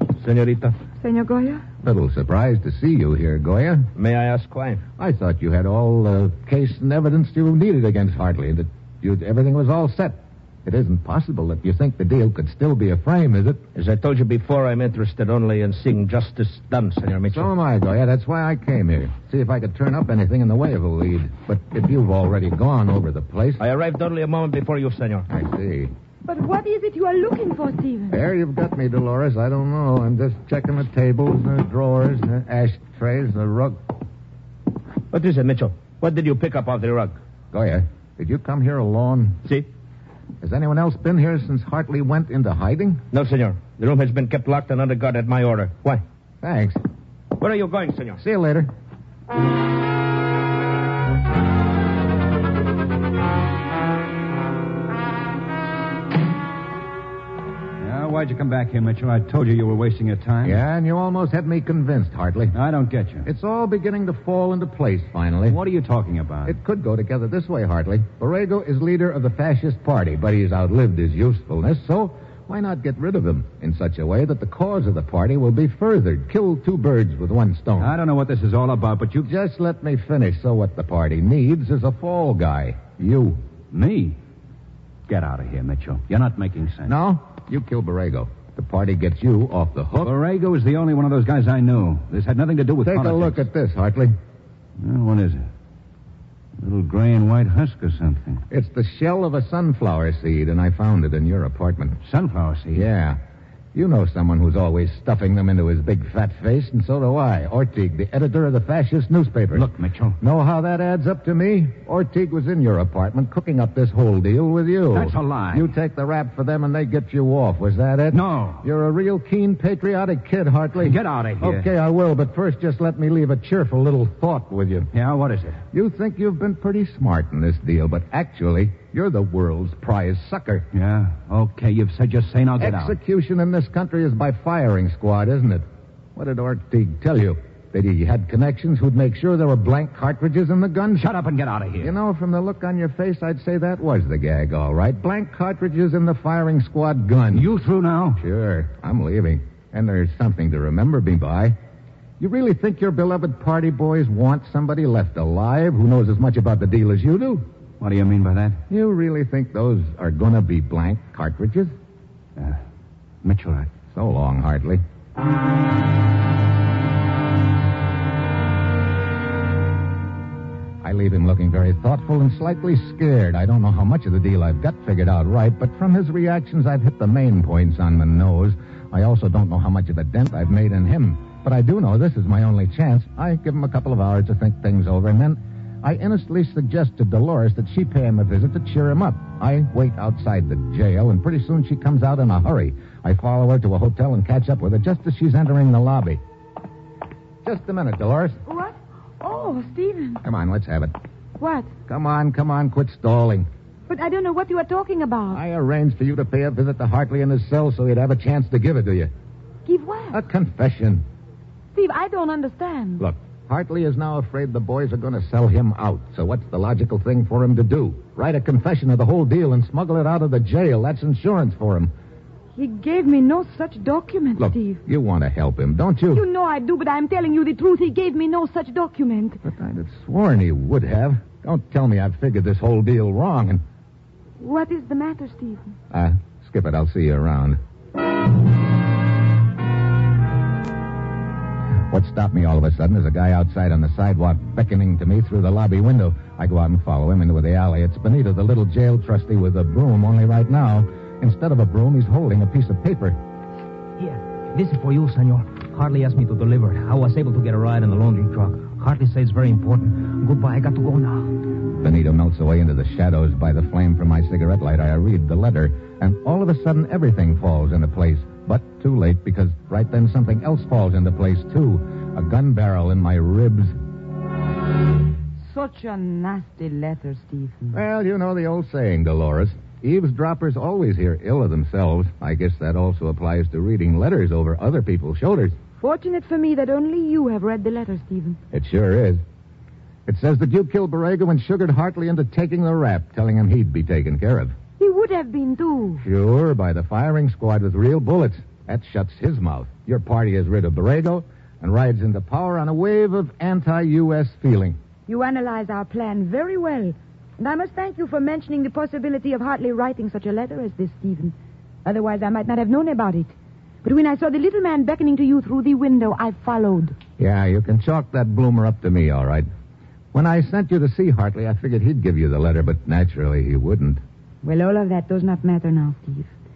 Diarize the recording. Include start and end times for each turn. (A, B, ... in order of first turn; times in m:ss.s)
0:00.1-0:00.8 A
0:01.0-0:01.6 B
0:01.8-0:03.9 C
0:04.0-0:04.8 A
0:05.0-0:13.6 C
0:13.7-0:17.5 A
0:17.3-0:23.6 C
0:23.6-0:25.2 A
0:25.3-0:25.9 C
0:26.2-0:28.2 B
0:28.1-0:33.8 C
0:35.1-0:37.2 A
0:37.5-0:39.4 C
0:40.4-0:43.0 C
0:43.1-0:46.0 A
0:46.4-0:46.8 C
0:47.4-0:48.2 A
0:48.2-0:48.7 C
0:57.8-1:00.6 D
1:00.4-1:02.5 C
1:02.5-1:03.3 D
1:03.2-1:05.6 C
1:05.5-1:06.5 D
1:06.4-1:17.9 C
1:17.8-1:19.3 D
1:19.2-1:23.4 C
1:23.7-1:24.2 D
1:25.1-1:26.9 D
1:26.8-1:30.1 C
1:30.0-1:33.4 D
1:32.8-1:34.1 C
1:34.8-1:35.4 D
1:36.6-1:38.4 D
1:38.5-1:42.0 C
1:42.0-1:42.8 D
1:42.7-1:43.2 C
1:43.7-2:04.9 C
1:49.5-1:50.2 D
1:54.9-1:55.7 D
1:58.1-1:58.6 D
2:00.8-2:01.7 D
2:04.9-2:05.6 D
2:05.7-2:10.7 C
2:10.7-2:13.0 D
2:12.6-2:15.6 C
2:16.2-2:21.1 C
2:21.0-2:21.9 D
2:21.8-2:27.5 C
2:27.3-2:28.2 D
2:28.2-2:31.6 C
2:32.2-2:37.4 C
2:37.8-2:38.6 D
2:38.7-2:41.7 C
2:43.2-2:43.7 D
2:43.9-2:44.8 C
2:50.8-3:16.2 C
3:17.4-3:18.4 C
3:18.4-3:20.2 B
3:20.2-3:20.9 C
3:21.4-3:21.7 B
3:21.9-3:23.5 C
3:23.9-3:25.4 B
3:25.3-3:29.1 C
3:29.7-3:30.2 B
3:30.1-3:31.0 C
3:31.7-3:33.0 B
3:33.0-3:41.9 C
3:42.6-3:44.8 B
3:44.4-3:46.2 C
3:46.1-3:49.4 B
3:49.4-3:53.6 C
3:54.4-3:55.7 B
3:55.9-3:57.6 C
4:01.9-4:13.2 C
4:14.0-4:21.4 E
4:21.7-4:33.8 C
4:35.4-4:37.8 B
4:37.7-4:45.6 C
4:45.8-4:48.4 B
4:48.5-4:49.2 C
4:50.0-4:54.6 C
4:54.8-4:56.0 B
4:56.0-5:04.8 C
5:05.1-5:17.0 B
5:17.2-5:19.5 C
5:20.1-5:24.0 C
5:24.4-5:26.3 B